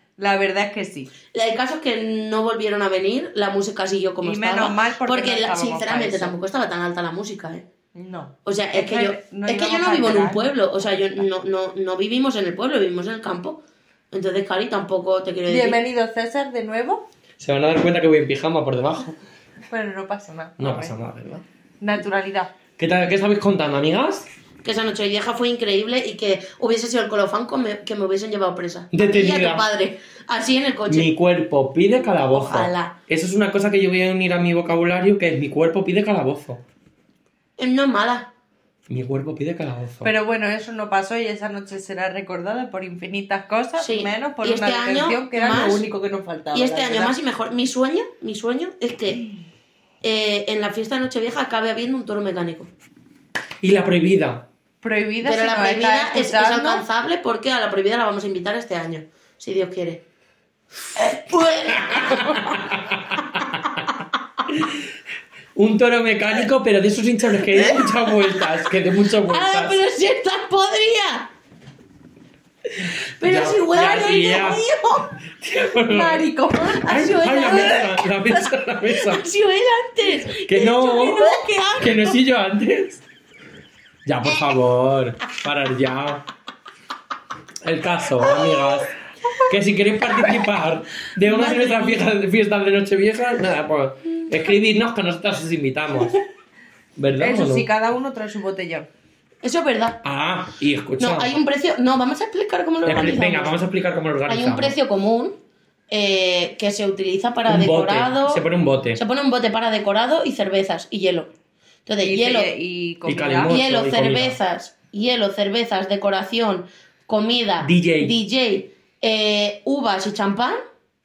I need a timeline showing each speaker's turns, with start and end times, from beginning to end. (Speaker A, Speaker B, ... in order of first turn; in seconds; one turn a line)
Speaker A: 0.2-1.1
Speaker B: 1.3-7.7
Speaker A: 4.2-6.3
Speaker A: 7.9-10.7
Speaker B: 8.4-13.6
Speaker B: 14.1-15.8
Speaker A: 15.5-17.1
Speaker C: 17.4-19.2
Speaker A: 19.7-20.9
Speaker C: 20.6-21.4
Speaker A: 21.8-22.5
Speaker C: 22.8-24.3
Speaker B: 24.6-31.1
Speaker C: 28.9-29.7
Speaker C: 30.9-36.6
Speaker B: 32.3-32.9
Speaker B: 37.6-38.3
Speaker C: 38.9-40.1
Speaker A: 40.0-47.1
Speaker B: 43.8-45.9
Speaker B: 46.5-49.2
Speaker B: 50.0-52.7
Speaker C: 53.6-54.5
Speaker A: 54.8-56.8
Speaker B: 55.2-60.0
Speaker B: 61.0-62.6
Speaker C: 61.7-63.8
Speaker C: 64.5-64.8
Speaker C: 65.5-69.8
Speaker B: 67.6-68.5
Speaker B: 69.2-71.3
Speaker B: 73.2-75.1
Speaker C: 73.2-74.6
Speaker A: 73.7-74.5
Speaker C: 75.4-76.3
Speaker A: 75.9-77.9
Speaker C: 76.8-79.3
Speaker B: 76.8-77.9
Speaker B: 79.0-82.1
Speaker C: 80.3-83.0
Speaker C: 84.0-86.3
Speaker C: 87.6-88.9
Speaker B: 88.4-88.8
Speaker C: 89.4-96.2
Speaker A: 91.3-92.0
Speaker C: 97.0-97.7
Speaker A: 97.2-98.9
Speaker B: 99.4-100.0
Speaker C: 100.0-101.4
Speaker B: 101.0-103.6
Speaker C: 102.9-104.8
Speaker B: 104.3-105.3
Speaker B: 105.9-108.4
Speaker C: 107.5-109.0
Speaker B: 108.9-111.3
Speaker B: 111.9-112.5
Speaker A: 112.0-113.6
Speaker C: 113.1-114.4
Speaker B: 113.5-120.6
Speaker C: 117.6-118.1